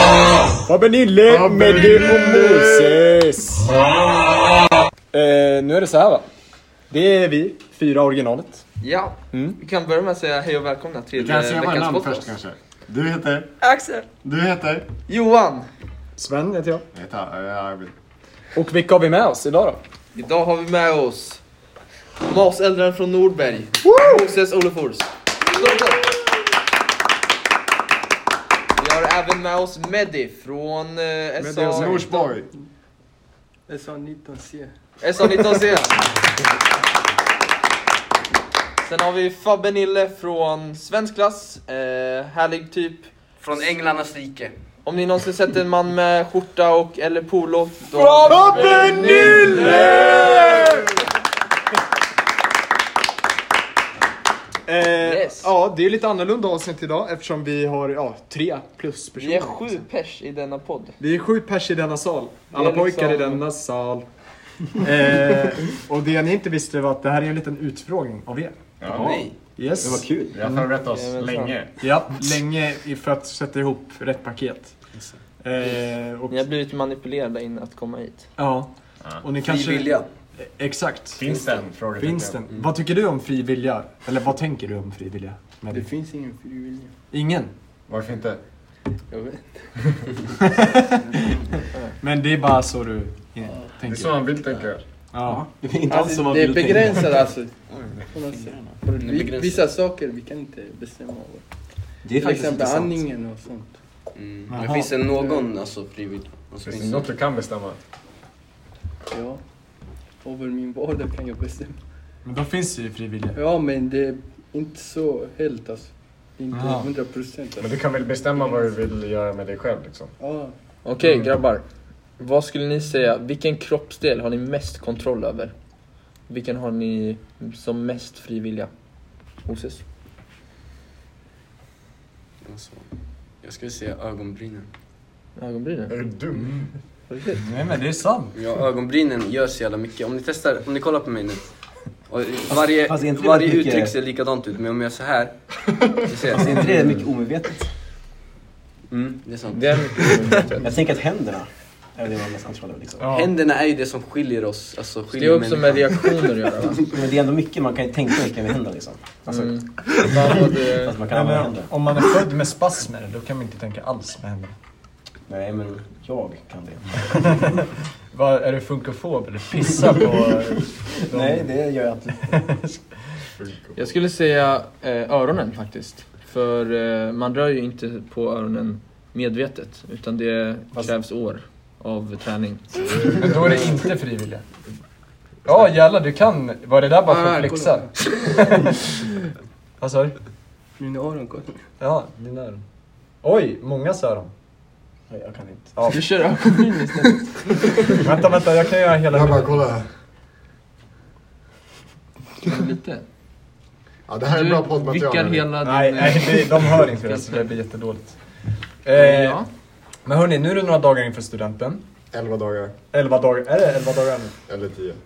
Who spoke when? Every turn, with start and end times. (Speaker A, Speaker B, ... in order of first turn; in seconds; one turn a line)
Speaker A: 0.7-3.7
Speaker B: 1.3-3.1
Speaker A: 5.1-8.7
Speaker C: 8.8-12.3
Speaker A: 9.3-9.6
Speaker B: 11.1-13.6
Speaker C: 13.6-14.1
Speaker B: 14.2-14.9
Speaker C: 15.1-15.7
Speaker A: 16.2-16.9
Speaker B: 16.9-17.9
Speaker A: 18.5-19.8
Speaker C: 20.1-21.5
Speaker C: 22.2-26.1
Speaker A: 23.9-24.2
Speaker C: 28.8-32.2
Speaker A: 31.4-32.0
Speaker B: 31.6-32.5
Speaker D: 33.5-34.8
Speaker C: 35.0-36.2
Speaker C: 38.8-43.4
Speaker E: 43.4-44.5
Speaker C: 44.8-50.6
Speaker A: 48.2-50.9
Speaker B: 48.3-50.2
Speaker A: 54.6-59.9
Speaker C: 55.0-55.5
Speaker C: 59.2-61.0
Speaker A: 61.0-70.7
Speaker C: 62.5-63.4
Speaker B: 68.8-71.7
Speaker F: 68.9-70.4
Speaker E: 68.9-69.4
Speaker C: 70.8-71.6
Speaker A: 71.8-76.5
Speaker C: 76.3-78.3
Speaker A: 78.4-81.3
Speaker E: 79.3-80.1
Speaker B: 81.2-82.5
Speaker A: 82.0-85.9
Speaker D: 85.7-87.0
Speaker A: 87.1-87.5
Speaker B: 87.9-88.4
Speaker D: 89.1-90.2
Speaker D: 90.9-91.5
Speaker A: 92.0-94.2
Speaker D: 93.5-93.7
Speaker B: 93.8-95.1
Speaker A: 95.1-95.4
Speaker F: 95.2-97.2
Speaker D: 95.9-103.8
Speaker E: 98.9-99.7
Speaker F: 102.0-103.0
Speaker E: 104.1-107.2
Speaker A: 104.5-104.9
Speaker D: 105.0-105.5
Speaker B: 106.7-107.8
Speaker D: 109.1-111.9
Speaker A: 112.2-113.4
Speaker D: 113.3-118.7
Speaker A: 116.5-116.9
Speaker B: 117.6-120.1
Speaker D: 120.2-120.6
Speaker C: 120.8-129.8
Speaker A: 121.0-121.3
Speaker E: 132.4-134.7
Speaker C: 135.4-136.0
Speaker B: 135.9-136.8
Speaker A: 136.4-136.6
Speaker C: 137.1-137.4
Speaker A: 137.4-138.3
Speaker E: 138.3-145.5
Speaker F: 142.8-143.9
Speaker E: 146.1-147.0
Speaker F: 146.3-147.7
Speaker E: 148.9-150.6
Speaker C: 149.5-150.7
Speaker F: 150.6-153.1
Speaker A: 153.0-153.3
Speaker E: 153.0-156.1
Speaker C: 155.1-156.8
Speaker F: 156.9-161.7
Speaker C: 159.3-161.0
Speaker A: 161.1-164.6
Speaker F: 165.3-167.6
Speaker A: 168.1-171.7
Speaker F: 171.1-172.6
Speaker A: 172.2-172.9
Speaker B: 173.3-173.9
Speaker C: 173.8-183.3
Speaker B: 182.8-183.7
Speaker A: 183.2-184.7
Speaker A: 185.4-188.5
Speaker D: 187.1-188.6
Speaker A: 189.8-190.2
Speaker D: 190.8-191.7
Speaker A: 191.8-194.3
Speaker F: 195.1-196.0
Speaker A: 195.8-196.3
Speaker C: 195.9-197.8
Speaker A: 198.0-199.7
Speaker B: 199.1-200.0
Speaker C: 202.4-203.1
Speaker B: 204.1-205.5
Speaker C: 204.3-207.5
Speaker A: 205.6-211.8
Speaker C: 208.9-209.5
Speaker B: 212.1-212.8
Speaker A: 212.9-214.4
Speaker B: 214.5-215.0